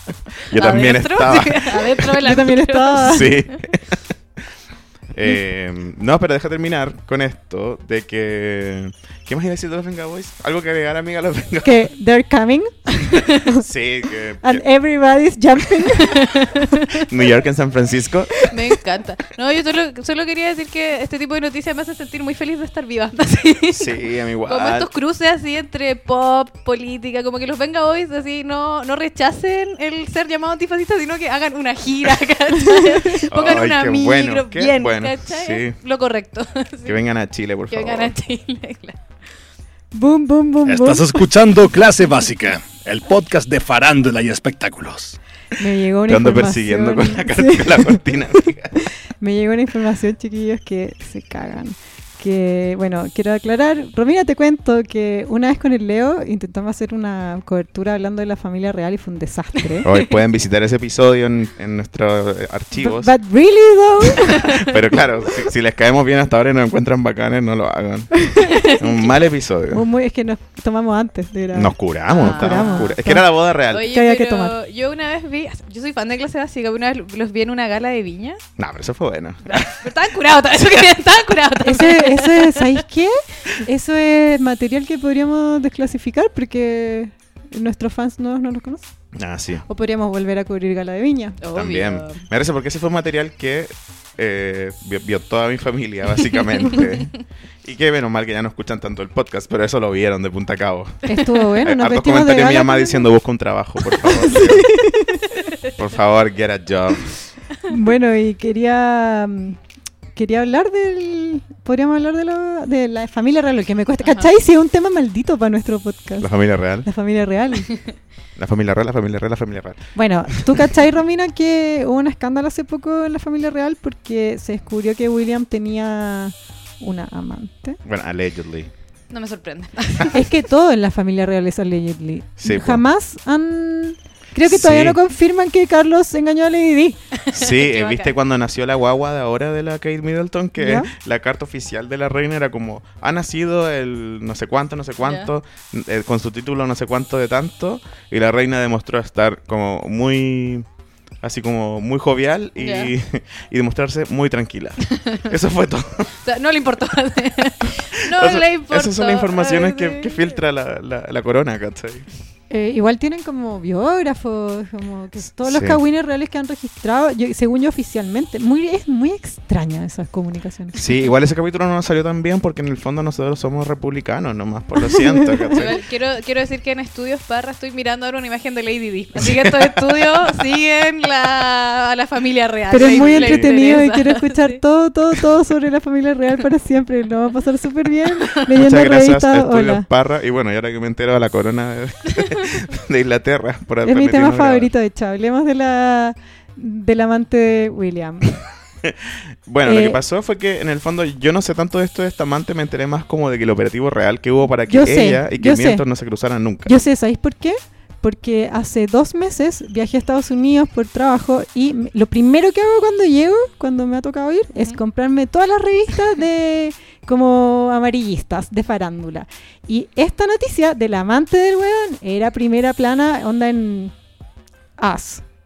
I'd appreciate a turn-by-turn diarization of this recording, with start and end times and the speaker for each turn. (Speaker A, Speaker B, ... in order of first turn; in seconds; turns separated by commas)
Speaker A: 0.4-2.1, Speaker B: 0.5-3.5, Speaker C: 2.0-3.3, Speaker A: 3.0-4.0, Speaker A: 5.1-11.8, Speaker C: 11.6-13.6, Speaker A: 13.5-14.6, Speaker C: 14.4-17.1, Speaker B: 16.1-16.6, Speaker A: 16.9-18.4, Speaker B: 18.4-37.0, Speaker A: 23.7-24.9, Speaker C: 32.6-33.1, Speaker A: 33.3-35.8, Speaker A: 36.8-38.1, Speaker B: 37.7-39.0, Speaker C: 39.9-41.3, Speaker D: 40.6-45.2, Speaker C: 45.6-48.2, Speaker A: 46.1-48.8, Speaker C: 48.7-59.9, Speaker A: 59.8-63.1, Speaker C: 62.8-64.8, Speaker A: 64.3-69.8, Speaker C: 68.2-68.8, Speaker B: 68.5-68.9, Speaker C: 69.7-73.2, Speaker A: 71.5-73.9, Speaker B: 72.1-72.9, Speaker B: 73.7-78.4, Speaker C: 73.8-74.5, Speaker A: 78.6-79.8, Speaker B: 79.5-82.8, Speaker C: 81.6-88.9, Speaker A: 89.1-89.6, Speaker C: 89.7-91.4, Speaker B: 91.4-92.2, Speaker A: 91.5-101.1, Speaker C: 101.0-103.1, Speaker A: 101.6-104.7, Speaker C: 104.0-105.2, Speaker A: 105.6-107.1, Speaker C: 107.7-109.6, Speaker C: 110.1-116.3, Speaker B: 114.0-114.3, Speaker A: 116.2-116.9, Speaker C: 116.8-117.7, Speaker A: 118.4-120.5, Speaker C: 119.9-127.8, Speaker A: 127.8-128.7, Speaker B: 129.1-130.3, Speaker C: 130.1-137.0, Speaker A: 132.4-132.8, Speaker A: 134.4-135.0, Speaker B: 137.2-138.1, Speaker A: 137.3-150.7, Speaker C: 140.6-140.9, Speaker B: 145.0-145.3, Speaker A: 151.2-156.1, Speaker B: 152.6-152.9, Speaker B: 154.9-155.2, Speaker B: 156.2-160.3, Speaker A: 158.1-162.1, Speaker C: 162.5-170.8, Speaker A: 165.4-165.8, Speaker A: 170.7-175.8, Speaker C: 174.8-175.6, Speaker B: 175.5-184.6, Speaker A: 179.4-179.7, Speaker C: 182.7-189.9, Speaker A: 182.8-183.5, Speaker A: 188.5-194.7, Speaker C: 193.8-198.4, Speaker A: 198.8-206.7, Speaker C: 199.6-200.0, Speaker C: 204.7-205.8, Speaker C: 206.7-223.9, Speaker C: 224.8-225.2